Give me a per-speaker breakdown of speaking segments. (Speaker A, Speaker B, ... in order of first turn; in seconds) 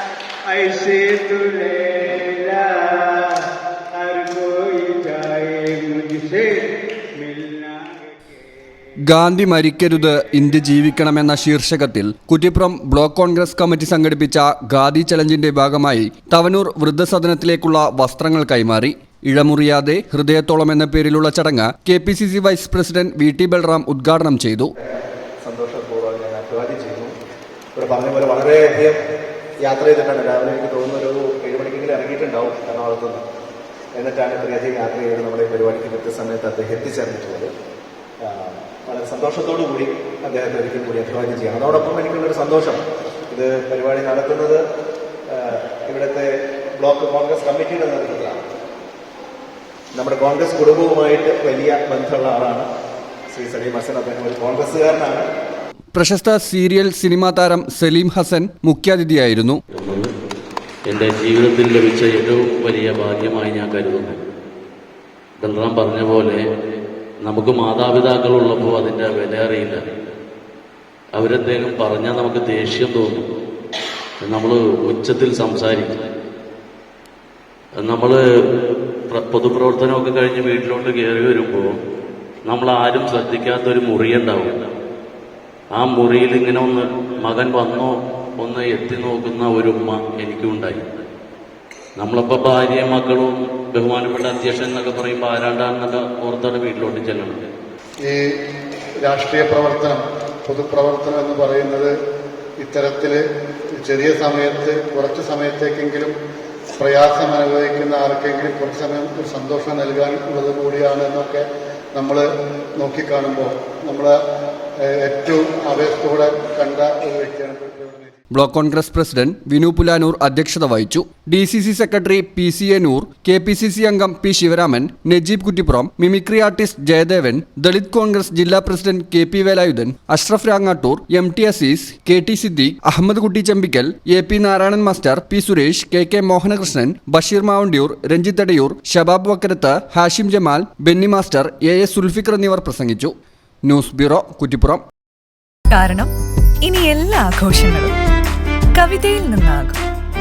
Speaker A: 0.5-3.4, 3.9-7.9, 145.7-147.9, 148.7-149.8
Speaker B: 9.0-24.7, 55.9-59.6, 118.3-143.1, 143.6-144.8
Speaker C: 25.4-27.1, 27.7-29.0, 29.6-33.2, 33.9-37.5, 38.2-44.6, 45.3-48.4, 49.9-52.6, 53.3-55.2
Speaker D: 59.7-60.1, 60.9-64.2, 65.4-66.4, 67.2-69.9, 71.1-73.3, 74.2-76.1, 77.8-78.2, 79.1-81.7, 82.4-84.7, 85.7-90.8, 92.0-97.5
Speaker E: 99.0-101.9, 102.6-103.2, 103.8-106.1, 106.8-114.2, 114.9-118.1